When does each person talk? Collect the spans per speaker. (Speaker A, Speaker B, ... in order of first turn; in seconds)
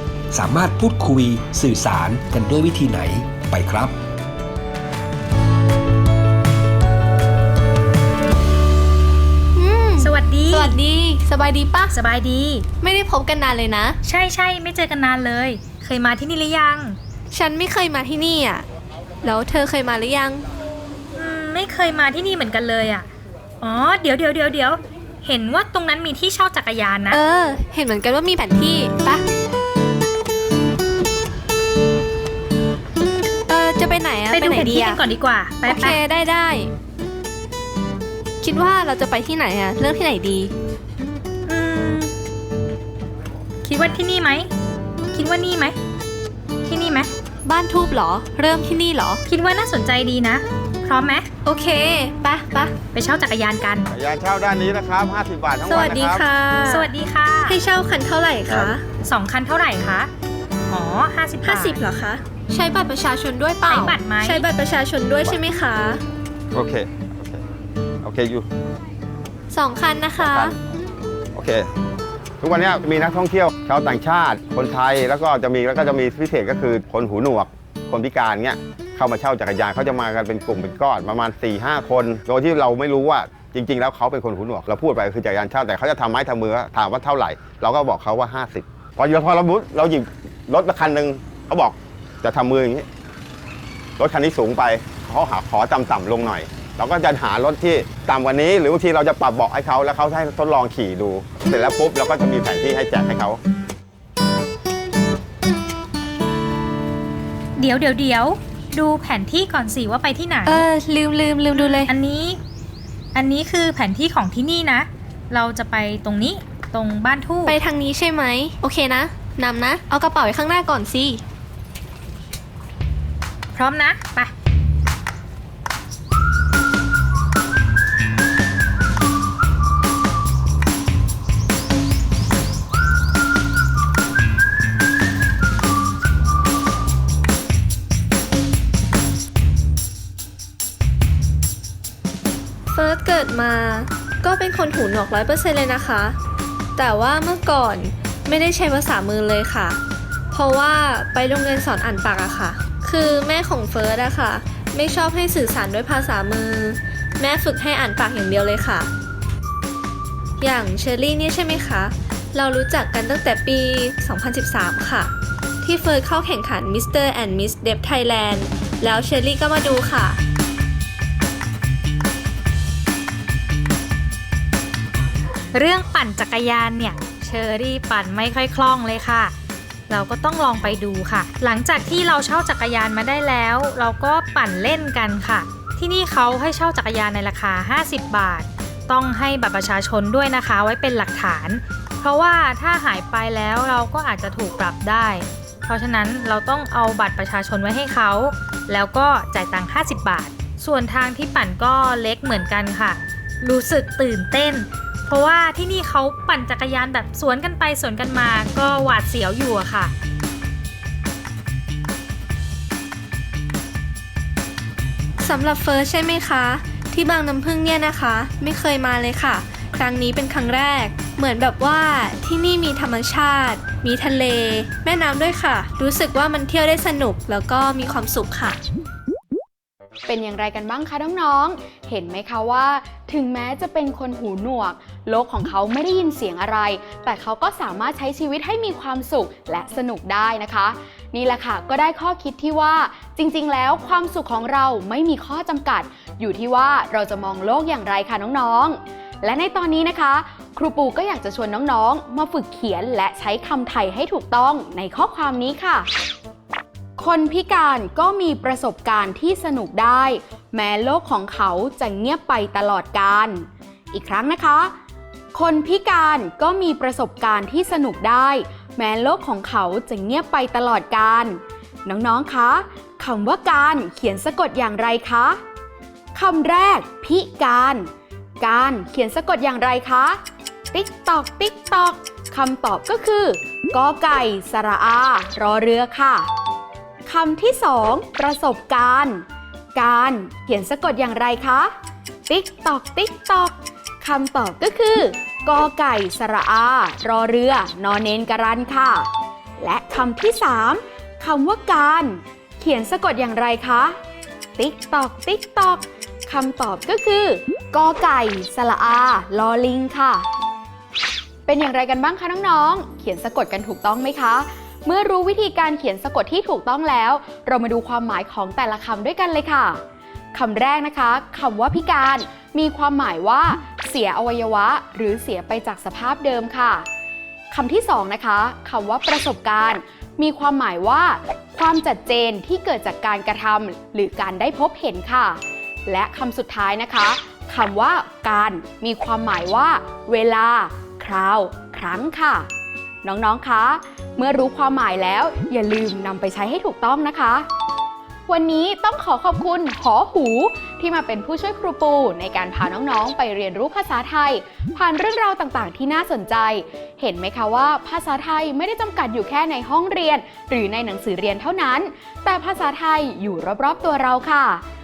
Speaker A: 0.3-3.9
Speaker B: 9.5-11.9, 12.8-14.0, 17.3-18.6, 19.2-20.4, 27.1-29.2, 33.5-35.0, 35.6-36.7, 38.4-40.5, 47.4-49.2, 51.4-52.7, 55.6-56.9, 57.5-58.9, 61.4-66.0, 69.5-70.5, 110.5-111.9, 117.5-121.2, 142.7-146.2, 146.8-149.8, 150.3-158.9, 160.4-170.2, 215.2-228.6
Speaker C: 10.0-10.8, 11.9-12.7, 14.0-17.0, 21.1-23.1, 23.6-27.2, 34.3-36.0, 41.5-42.1, 43.6-44.5, 45.1-45.8, 46.6-47.1, 49.2-51.3, 52.9-53.9, 56.7-57.6, 59.0-60.1, 60.7-61.8, 63.6-64.5, 107.6-110.7, 111.6-112.4, 113.1-117.6, 123.5-124.3, 175.5-179.3, 179.9-209.9
Speaker D: 53.9-56.2, 66.5-67.4, 68.0-68.5, 70.2-70.5, 71.3-71.6, 72.4-92.8, 94.0-103.4
Speaker E: 230.1-255.9, 257.0-264.7, 265.3-275.4, 276.1-280.2, 280.7-286.3, 287.1-291.7, 292.3-303.9, 304.6-310.3, 311.5-319.8, 320.3-326.9, 327.5-342.5, 343.0-347.5, 348.3-364.6